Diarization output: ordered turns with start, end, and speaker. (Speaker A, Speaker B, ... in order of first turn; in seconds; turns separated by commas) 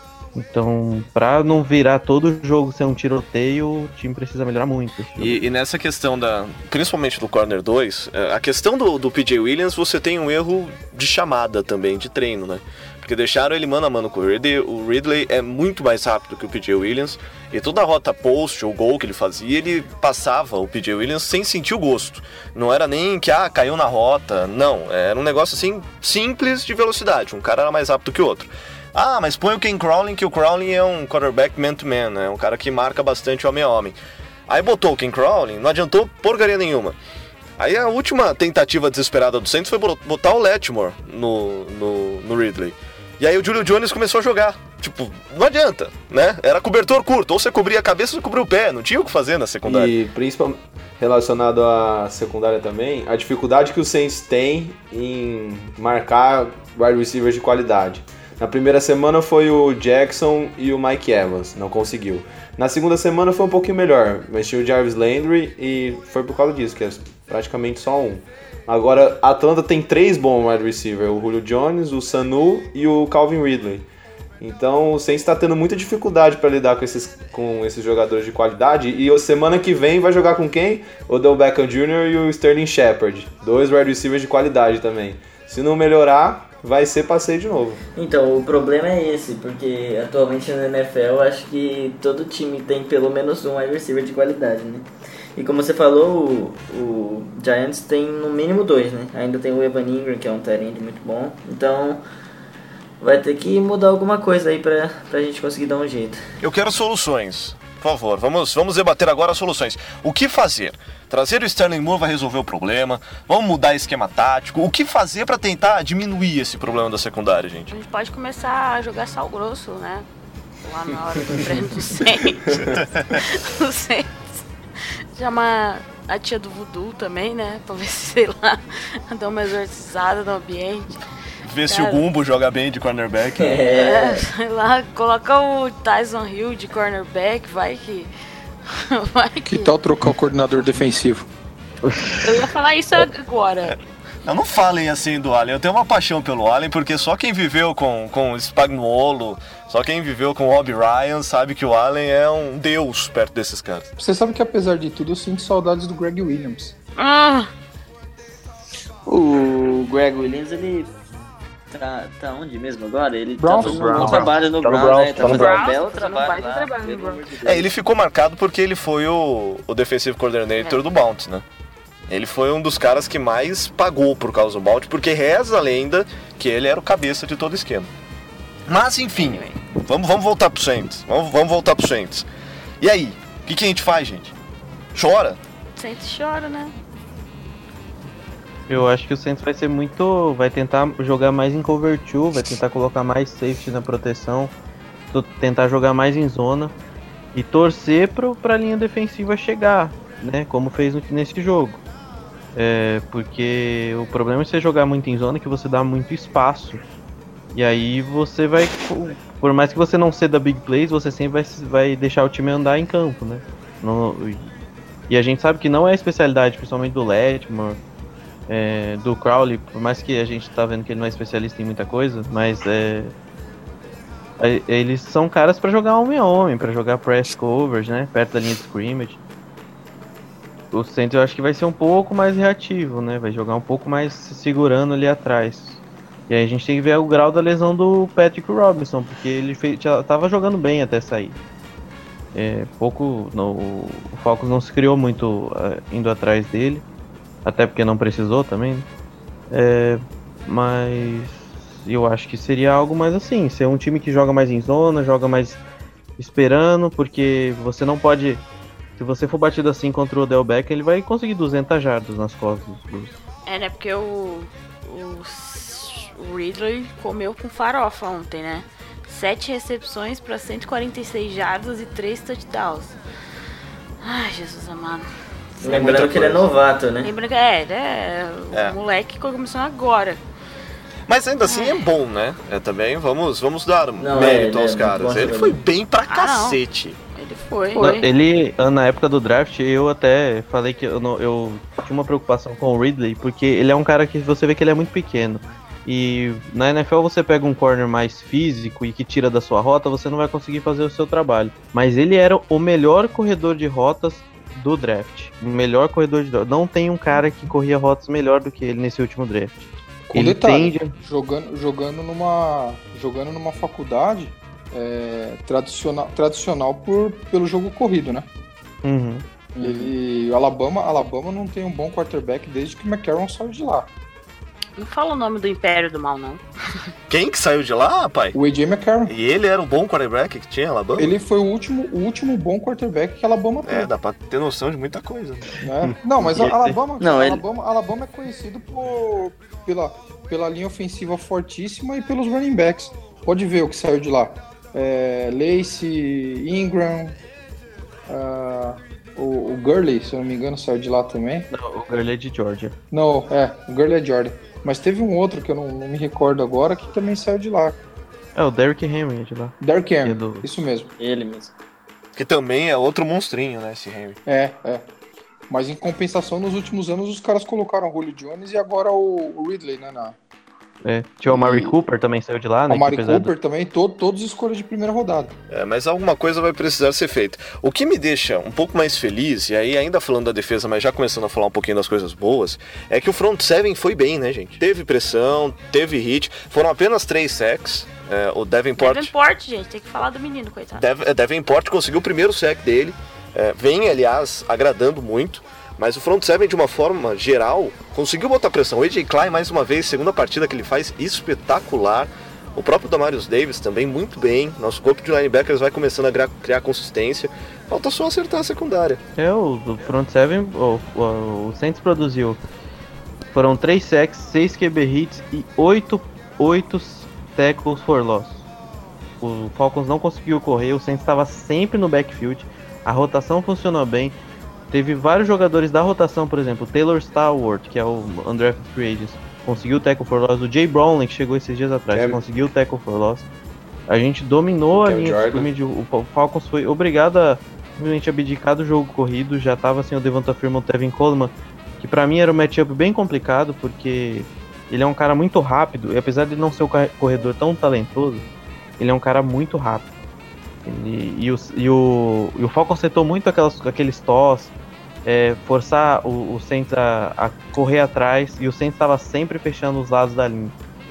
Speaker A: 0.3-5.4, Speaker B: 5.2-34.0, Speaker B: 34.5-37.0, Speaker B: 37.6-49.9, Speaker C: 49.6-73.9, Speaker C: 74.4-87.8, Speaker D: 88.0-102.0, Speaker D: 103.0-106.2, Speaker B: 106.4-117.7, Speaker E: 117.7-120.1, Speaker E: 120.6-122.5, Speaker B: 122.8-123.2, Speaker E: 123.1-124.4, Speaker E: 125.1-131.0, Speaker B: 131.5-133.6, Speaker E: 131.7-132.0, Speaker D: 133.4-134.2, Speaker E: 133.7-138.1, Speaker E: 138.7-139.7, Speaker F: 139.4-141.3, Speaker A: 141.8-142.3, Speaker E: 142.2-143.8, Speaker B: 143.7-153.9, Speaker F: 154.0-156.7, Speaker E: 157.0-157.5, Speaker D: 159.1-160.9, Speaker D: 161.7-167.6, Speaker F: 163.4-164.3, Speaker A: 163.7-165.7, Speaker E: 165.2-167.2, Speaker B: 167.4-171.4, Speaker B: 172.1-177.9, Speaker B: 178.7-182.3, Speaker E: 179.1-179.6, Speaker B: 182.8-184.3, Speaker B: 184.9-185.4, Speaker E: 185.8-186.7, Speaker A: 188.7-194.5, Speaker A: 195.1-196.7, Speaker A: 197.3-201.8, Speaker A: 202.5-206.8, Speaker A: 207.5-214.5, Speaker A: 215.1-217.8, Speaker A: 218.5-223.1, Speaker A: 224.4-229.2, Speaker A: 230.7-235.8, Speaker A: 236.3-241.4, Speaker A: 242.3-246.8, Speaker A: 247.4-248.9, Speaker A: 249.5-255.6, Speaker A: 256.2-258.4, Speaker A: 259.0-263.1, Speaker E: 263.4-273.0, Speaker E: 274.0-275.1, Speaker D: 275.6-277.1, Speaker B: 275.6-276.5, Speaker E: 277.0-280.2, Speaker B: 281.1-287.0, Speaker E: 281.4-281.9, Speaker D: 284.0-285.6, Speaker E: 286.1-286.6, Speaker E: 287.1-288.1, Speaker A: 287.8-310.9, Speaker F: 310.1-318.3, Speaker A: 318.8-319.2, Speaker F: 319.6-323.9, Speaker E: 324.8-326.4, Speaker B: 327.1-328.4, Speaker F: 328.3-329.1, Speaker B: 329.1-331.1, Speaker F: 330.9-333.9, Speaker B: 333.6-335.6, Speaker F: 335.6-347.2, Speaker D: 337.0-337.4, Speaker F: 348.1-351.5, Speaker A: 351.5-352.8, Speaker F: 352.9-357.8, Speaker A: 358.3-360.4, Speaker F: 359.6-360.9, Speaker D: 361.0-361.5, Speaker B: 362.1-364.2, Speaker F: 364.2-364.9, Speaker F: 365.5-370.1, Speaker A: 370.8-373.3, Speaker F: 371.3-371.8, Speaker F: 372.7-375.3, Speaker B: 375.5-389.1, Speaker E: 388.8-390.8, Speaker B: 390.7-409.0, Speaker A: 409.1-412.4, Speaker A: 413.3-418.4, Speaker A: 419.2-424.1, Speaker A: 424.7-433.2, Speaker C: 431.9-432.2, Speaker A: 433.9-448.2, Speaker C: 434.7-435.5, Speaker A: 448.8-449.9, Speaker A: 450.6-454.5, Speaker A: 455.0-460.5